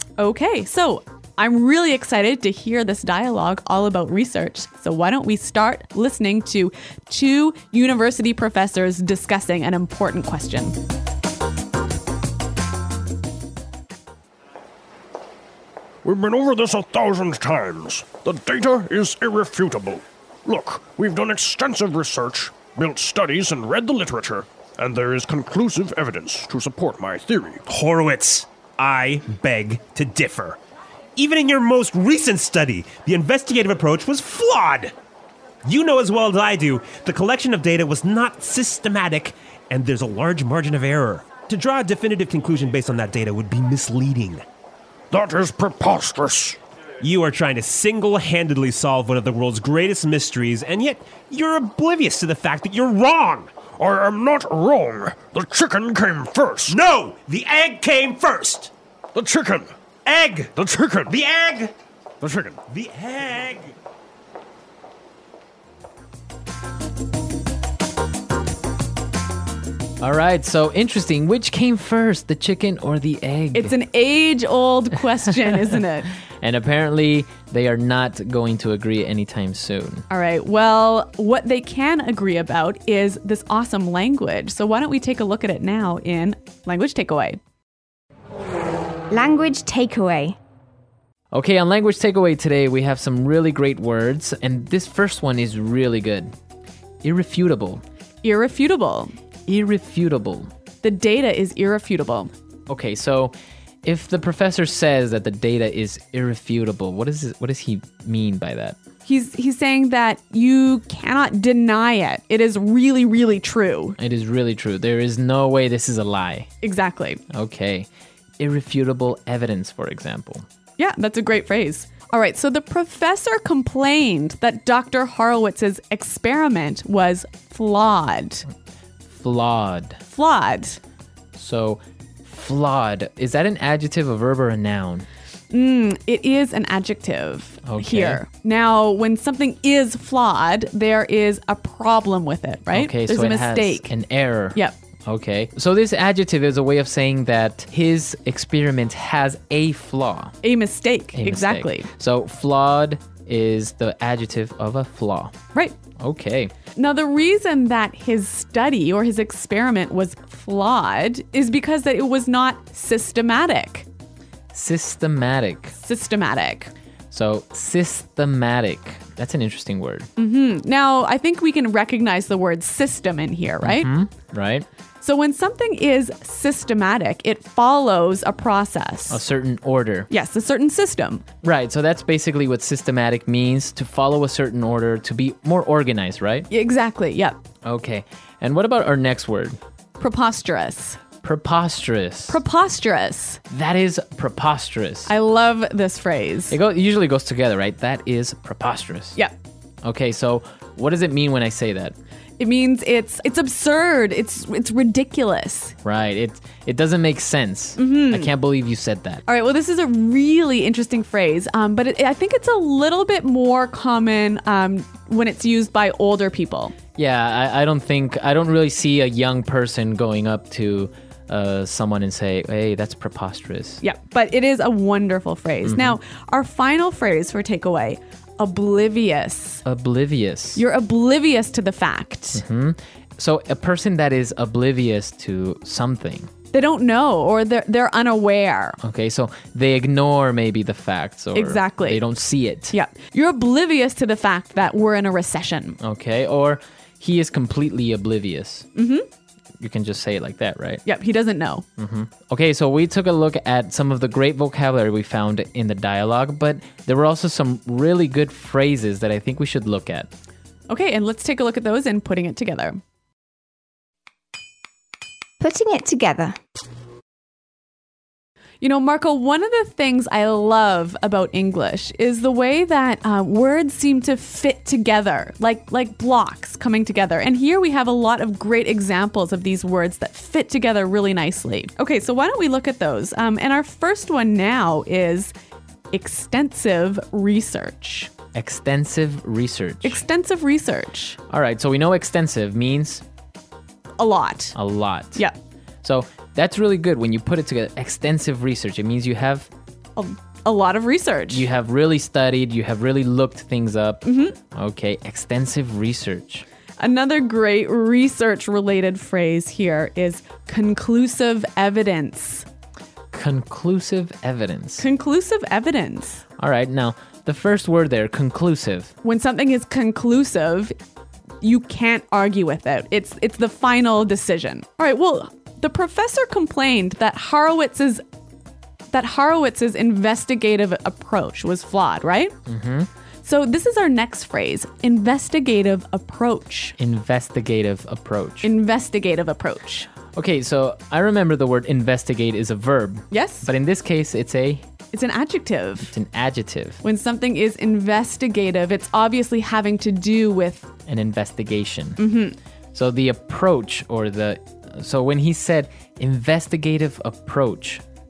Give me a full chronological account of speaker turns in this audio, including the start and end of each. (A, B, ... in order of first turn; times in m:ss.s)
0:00.2-0:10.8 A
0:16.0-0:27.6 B
0:27.7-0:30.6 C
0:31.2-0:34.9 C
0:35.6-0:44.4 C
0:45.1-0:46.6 B
0:47.0-0:53.5 C
0:53.8-0:56.7 B
0:56.7-0:58.7 C
0:59.1-0:59.7 B
1:00.0-1:00.6 C
1:00.5-1:01.1 B
1:01.1-1:01.7 C
1:02.2-1:02.6 B
1:02.7-1:03.7 C
1:10.0-1:13.7 D
1:13.5-1:16.1 A
1:16.4-1:20.0 D
1:20.1-1:27.4 A
1:29.1-1:30.4 E
1:31.3-1:36.3 D
1:37.0-1:37.8 D
1:38.2-1:39.1 A
1:39.5-1:40.5 D
1:40.8-1:42.3 A
1:42.7-1:48.8 D
1:49.0-1:54.0 A
1:54.0-1:56.5 D
1:56.6-1:57.2 A
1:57.3-2:00.4 D
2:00.8-2:08.4 A
2:09.1-2:10.0 D
2:10.1-2:10.8 A
2:11.4-2:15.1 D
2:15.5-2:23.9 A
2:17.6-2:18.2 D
2:22.7-2:30.3 D
2:30.4-2:31.9 A
2:31.1-2:35.3 D
2:36.0-2:36.5 D
2:36.7-2:43.8 A
2:44.5-2:45.8 D
2:45.8-2:46.7 A
2:47.1-2:50.1 D
2:50.2-2:53.9 A
2:53.6-2:54.7 D
2:55.0-2:59.2 A
2:59.1-3:00.1 D
3:00.1-3:01.2 A
3:01.4-3:06.5 D
3:06.5-3:07.4 A
3:07.6-3:09.6 D
3:10.0-3:11.0 A
3:11.2-3:12.4 D
3:12.3-3:13.4 A
3:13.5-3:15.1 D
3:15.0-3:16.6 A
3:16.5-3:19.2 D
3:19.8-3:22.0 D
3:22.4-3:25.7 A
3:25.8-3:29.2 D
3:27.8-3:28.3 A
3:29.3-3:36.7 A
3:37.0-3:43.8 D
3:43.8-3:49.6 A
3:45.6-3:46.0 D
3:49.6-3:50.6 D
3:50.6-3:52.4 A
3:52.3-3:56.3 D
3:56.5-3:58.8 A
3:58.8-4:02.7 D
4:01.3-4:02.0 A
4:02.7-4:05.8 A
4:05.8-4:08.7 D
4:08.7-4:09.0 A
4:09.6-4:10.8 D
4:10.8-4:11.6 A
4:11.8-4:20.1 D
4:20.7-4:22.8 A
4:25.4-4:26.4 E
4:28.6-4:45.3 A
4:45.9-4:48.1 A
4:48.3-4:50.0 D
4:49.8-4:51.2 A
4:51.3-4:53.0 D
4:54.0-4:54.6 A
4:54.5-4:55.2 D
4:55.8-4:59.5 D
5:00.0-5:01.5 A
5:01.3-5:06.4 D
5:04.0-5:04.4 A
5:06.8-5:12.4 A
5:13.1-5:14.8 D
5:14.8-5:16.2 A
5:16.4-5:18.9 D
5:19.0-5:20.7 A
5:21.4-5:28.0 A
5:28.9-5:32.3 A
5:32.4-5:32.9 D
5:33.2-5:36.7 A
5:36.8-5:38.5 D
5:38.4-5:39.9 A
5:40.1-5:44.6 D
5:43.1-5:43.5 A
5:44.9-5:45.9 A
5:45.9-5:46.8 D
5:46.8-5:50.7 A
5:50.9-5:52.1 D
5:52.0-5:52.4 A
5:52.7-5:57.8 D